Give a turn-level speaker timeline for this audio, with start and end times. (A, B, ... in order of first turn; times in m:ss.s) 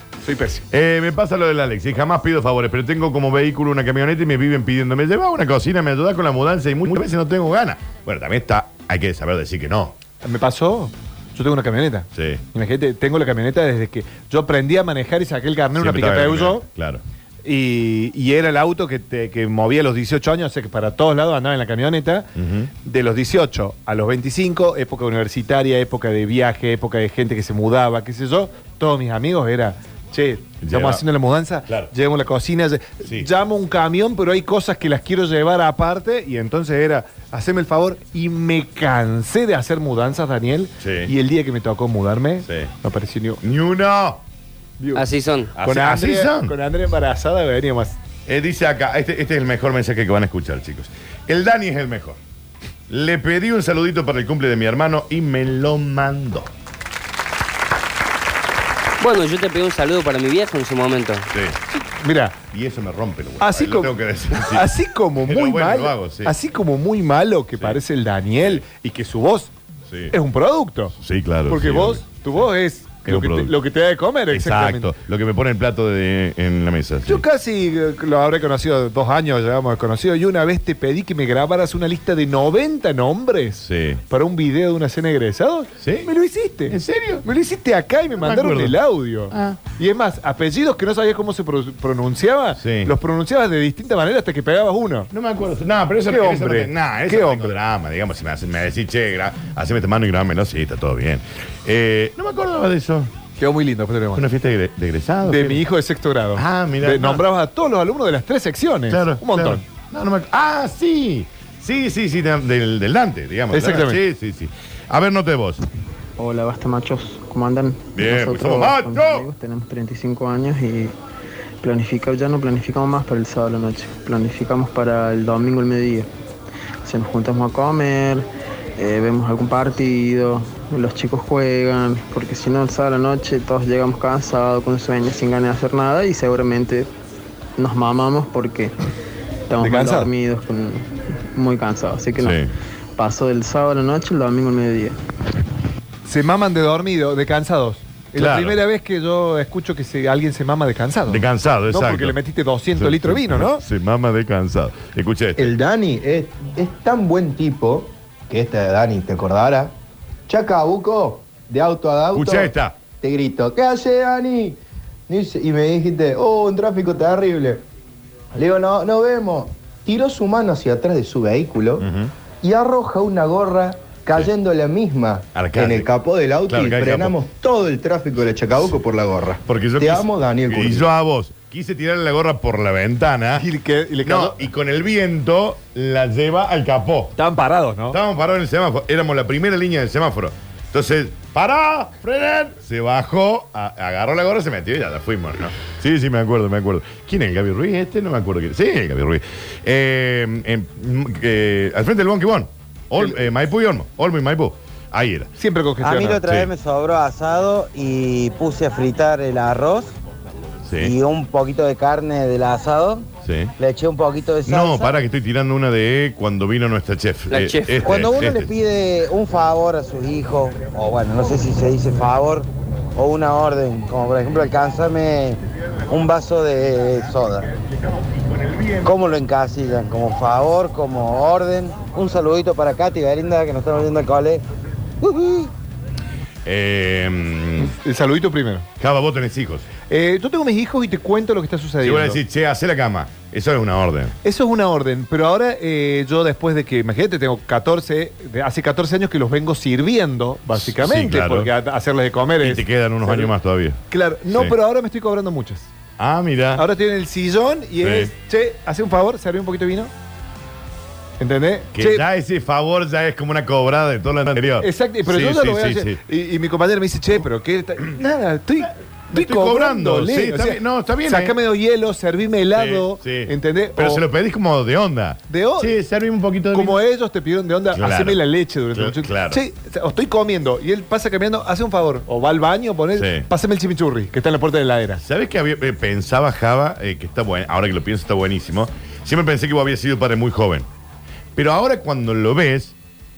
0:00.2-0:00.6 A
0:00.7-0:10.0 B
0:10.2-0:16.6 A
0:12.1-0:12.4 B
0:15.8-0:17.0 B
0:17.4-0:43.4 A
0:22.4-0:22.7 B
0:30.6-0:31.0 B
0:33.0-0:33.3 B
0:40.8-0:41.1 B
0:42.5-0:42.7 B
0:43.4-0:44.2 B
0:44.8-0:45.0 A
0:44.9-0:45.5 C
0:45.6-0:46.6 B
0:45.6-0:48.0 A
0:48.2-0:52.2 B
0:52.9-0:56.5 B
0:59.0-1:01.3 C
1:01.3-1:01.6 B
1:01.7-1:02.4 A
1:02.5-1:06.4 B
1:03.4-1:09.5 A
1:10.1-1:11.0 A
1:11.0-1:12.4 B
1:11.5-1:14.9 A
1:13.0-1:13.6 B
1:14.3-1:17.2 B
1:17.0-1:35.1 A
1:23.6-1:24.0 B
1:25.8-1:26.1 B
1:26.7-1:27.2 B
1:28.2-1:28.8 B
1:29.3-1:29.6 B
1:32.6-1:32.9 B
1:35.1-1:43.1 B
1:36.1-1:37.5 A
1:43.4-1:44.2 A
1:44.1-1:45.6 B
1:45.2-1:49.6 A
1:46.4-1:47.2 B
1:48.9-1:55.6 B
1:53.5-1:54.0 A
1:56.2-2:00.9 D
1:57.9-1:59.3 B
2:01.6-2:06.1 D
2:06.8-2:16.9 D
2:17.6-2:18.7 D
2:19.5-2:22.4 D
2:19.6-2:20.1 A
2:22.2-2:22.5 B
2:23.0-2:25.0 D
2:26.0-2:33.6 A
2:28.1-2:28.6 B
2:31.1-2:32.2 B
2:32.7-2:35.5 B
2:35.4-2:39.7 E
2:40.3-2:47.6 E
2:42.1-2:42.8 B
2:48.3-2:51.9 E
2:51.8-2:52.1 B
2:52.4-3:00.9 E
2:55.4-2:55.9 B
2:56.5-2:57.2 B
2:59.5-3:03.5 B
3:03.4-3:04.5 A
3:04.0-3:07.1 B
3:07.2-3:08.0 A
3:07.9-3:25.3 B
3:25.4-3:26.2 A
3:25.8-3:29.9 F
3:26.2-3:26.5 B
3:30.7-3:30.9 B
3:30.8-3:33.1 F
3:33.2-3:33.5 B
3:33.6-3:34.9 F
3:34.4-3:38.5 B
3:37.3-3:38.0 C
3:37.9-3:47.5 F
3:48.8-3:54.4 F
3:55.0-3:55.5 F
3:56.4-3:57.8 B
3:57.6-3:58.7 A
3:58.8-3:59.7 B
3:59.9-4:02.2 A
4:01.8-4:04.2 B
4:04.2-4:13.3 A
4:10.5-4:11.5 B
4:12.4-4:14.6 B
4:13.9-4:15.7 A
4:16.0-4:16.6 B
4:16.6-4:19.9 A
4:17.8-4:18.1 B
4:21.2-4:22.0 A
4:21.8-4:26.0 B
4:24.6-4:34.0 A
4:29.1-4:31.4 B
4:32.5-4:36.8 B
4:35.3-4:35.8 A
4:36.5-4:45.0 A
4:37.7-4:39.4 B
4:42.9-4:43.3 B
4:45.0-4:50.7 B
4:51.4-4:52.8 B